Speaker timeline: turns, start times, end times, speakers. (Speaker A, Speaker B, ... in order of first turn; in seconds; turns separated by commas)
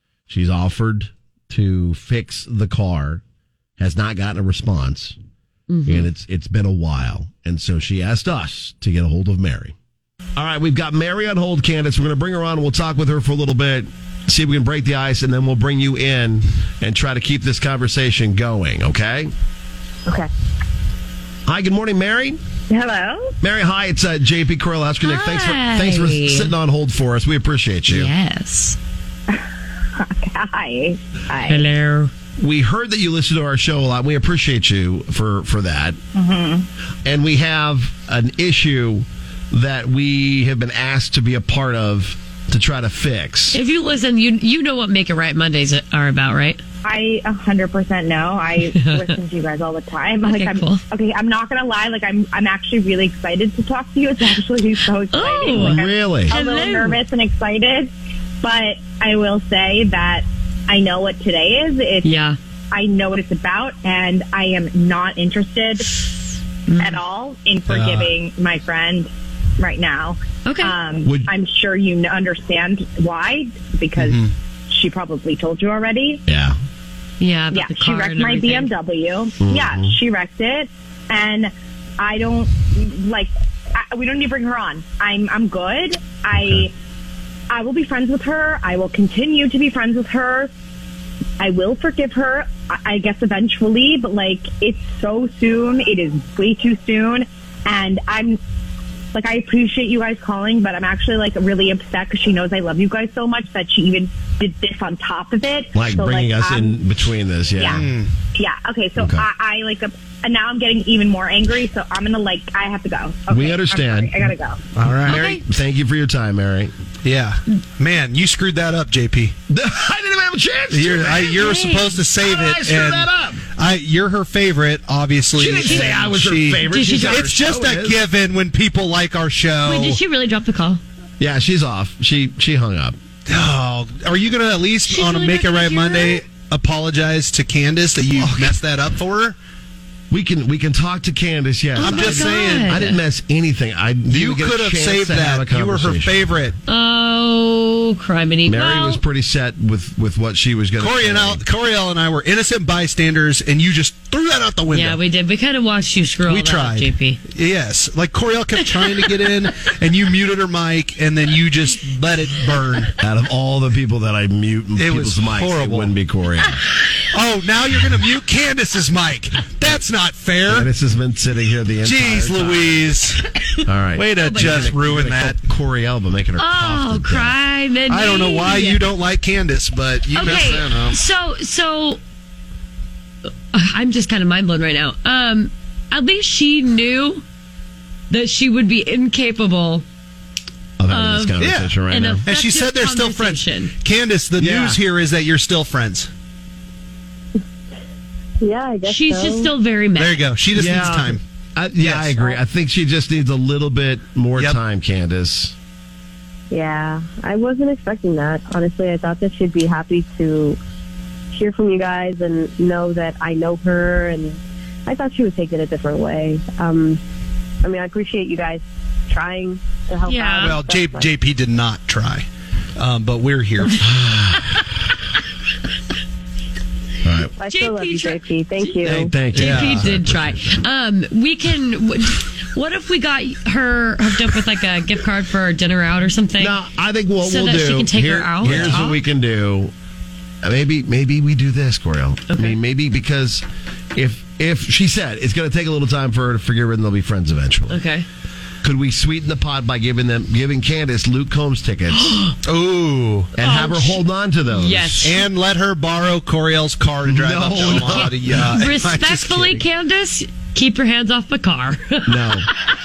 Speaker A: 0.3-3.2, Speaker A: 3.8-5.2, Speaker B: 5.7-6.1, Speaker A: 5.9-9.8, Speaker A: 10.4-19.3, Speaker A: 21.5-22.4, Speaker C: 22.7-23.3, Speaker A: 23.4-28.1, Speaker B: 25.0-26.5, Speaker B: 27.9-28.8, Speaker C: 30.0-31.7, Speaker B: 31.4-32.1, Speaker A: 32.4-36.0, Speaker C: 36.1-36.7, Speaker A: 37.0-43.6, Speaker B: 43.5-46.6, Speaker C: 46.9-62.1, Speaker B: 48.7-49.1, Speaker B: 50.3-50.8, Speaker B: 55.1-57.0, Speaker A: 55.6-56.3, Speaker B: 62.0-62.4, Speaker C: 62.7-66.0, Speaker B: 66.7-67.0, Speaker C: 66.8-76.2, Speaker D: 67.7-68.1, Speaker B: 70.5-70.8, Speaker A: 71.0-71.3, Speaker D: 74.0-74.3, Speaker A: 76.3-76.6, Speaker B: 77.2-78.7, Speaker C: 77.5-86.7, Speaker A: 79.4-80.0, Speaker A: 86.3-86.7, Speaker C: 87.5-90.5, Speaker C: 91.4-98.4, Speaker C: 99.1-106.9, Speaker A: 105.8-107.8, Speaker C: 107.6-107.8, Speaker D: 107.8-108.1, Speaker C: 108.3-114.6, Speaker A: 109.0-109.3, Speaker A: 113.3-114.3, Speaker D: 114.8-115.3, Speaker A: 115.0-116.7, Speaker B: 115.1-115.4, Speaker D: 117.0-119.3, Speaker A: 119.5-123.4, Speaker D: 120.7-130.0, Speaker B: 121.3-122.0, Speaker A: 125.4-128.0, Speaker B: 125.6-125.9, Speaker B: 126.7-127.3, Speaker B: 129.7-130.8, Speaker A: 131.2-133.0, Speaker D: 133.3-139.4, Speaker B: 134.9-136.2, Speaker A: 138.2-138.5, Speaker A: 140.1-146.4, Speaker B: 141.8-143.0, Speaker D: 141.8-142.9, Speaker D: 144.1-146.6, Speaker B: 146.7-149.0, Speaker A: 148.5-151.4, Speaker D: 150.8-155.0, Speaker B: 154.7-157.2, Speaker D: 156.3-162.9, Speaker B: 158.8-159.1, Speaker A: 163.0-166.6, Speaker D: 164.8-165.9, Speaker D: 167.1-170.7, Speaker A: 170.5-172.8, Speaker D: 171.8-173.2, Speaker A: 173.7-177.4, Speaker D: 173.9-175.4, Speaker B: 174.2-174.7, Speaker B: 176.4-178.8, Speaker D: 177.9-181.0, Speaker B: 180.1-182.0, Speaker B: 183.5-187.2, Speaker B: 188.1-189.8, Speaker A: 190.8-192.2, Speaker B: 190.9-193.7, Speaker D: 191.4-196.1, Speaker A: 194.4-194.8, Speaker E: 198.4-199.5, Speaker B: 198.8-200.2, Speaker D: 200.0-201.2, Speaker A: 200.6-205.6, Speaker D: 201.8-202.2, Speaker E: 206.5-210.6, Speaker E: 211.3-217.0, Speaker E: 217.6-221.1, Speaker B: 220.1-220.6, Speaker D: 220.4-222.3, Speaker D: 222.8-223.9, Speaker A: 223.8-224.7, Speaker A: 227.0-227.3, Speaker E: 227.4-229.2, Speaker B: 227.4-236.6, Speaker A: 228.8-230.6, Speaker D: 229.3-230.0, Speaker A: 236.4-239.7, Speaker B: 237.2-239.0, Speaker D: 238.4-238.8, Speaker A: 240.4-247.8, Speaker B: 242.3-242.6, Speaker B: 247.7-248.1, Speaker A: 248.6-252.2, Speaker B: 252.0-252.3, Speaker D: 252.4-253.3, Speaker A: 253.4-255.1, Speaker B: 253.4-255.2, Speaker D: 255.0-259.6, Speaker A: 257.1-258.3, Speaker B: 257.7-262.4, Speaker A: 262.1-262.5